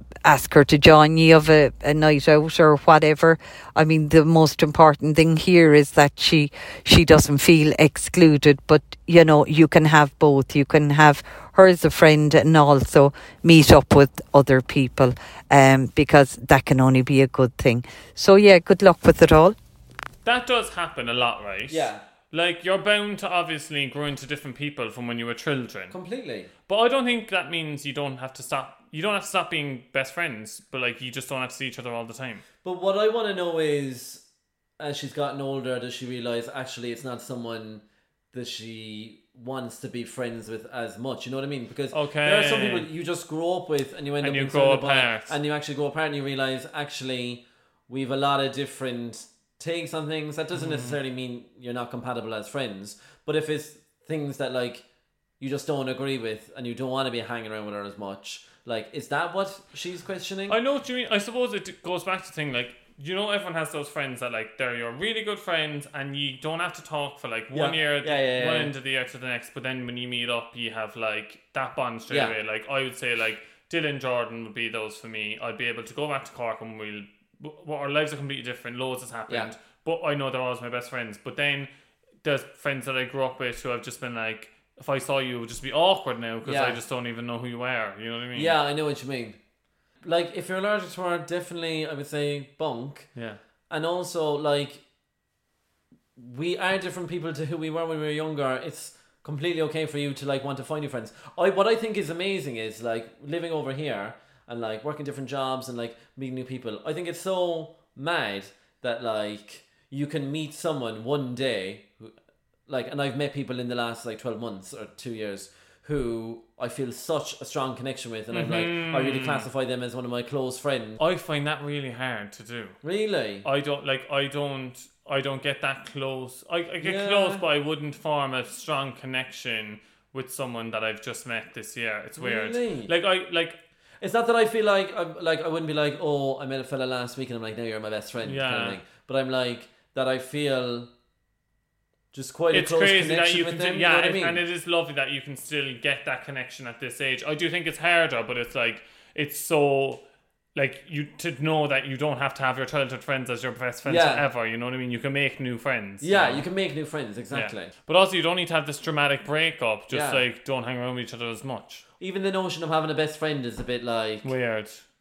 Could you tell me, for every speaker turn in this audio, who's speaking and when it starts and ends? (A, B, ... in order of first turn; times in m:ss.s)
0:00.2-0:19.5 A
0:20.2-0:26.0 B
0:21.7-0:22.0 C
0:25.9-0:26.5 C
0:26.7-0:32.4 B
0:32.6-0:34.2 C
0:34.8-0:54.8 C
0:41.9-0:42.9 B
0:44.2-0:45.3 B
0:50.5-0:51.0 B
0:55.4-1:00.5 C
1:00.5-1:21.7 B
1:07.5-1:08.7 C
1:12.1-1:12.3 C
1:22.2-1:28.5 B
1:26.4-1:26.8 C
1:28.3-1:29.4 C
1:30.0-1:33.1 C
1:33.7-1:34.8 C
1:36.2-1:52.1 C
1:52.7-2:01.0 C
1:58.3-1:59.4 B
2:01.0-2:02.8 B
2:02.8-2:03.4 C
2:03.4-2:13.6 B
2:06.8-2:07.4 C
2:12.2-2:12.9 C
2:14.0-2:20.9 C
2:18.2-2:18.8 B
2:22.1-2:24.4 C
2:22.5-2:30.0 B
2:30.5-2:36.4 B
2:33.8-2:34.2 C
2:36.0-2:37.7 C
2:37.3-2:41.8 B
2:39.9-2:40.2 C
2:42.0-2:44.3 C
2:44.2-2:44.8 B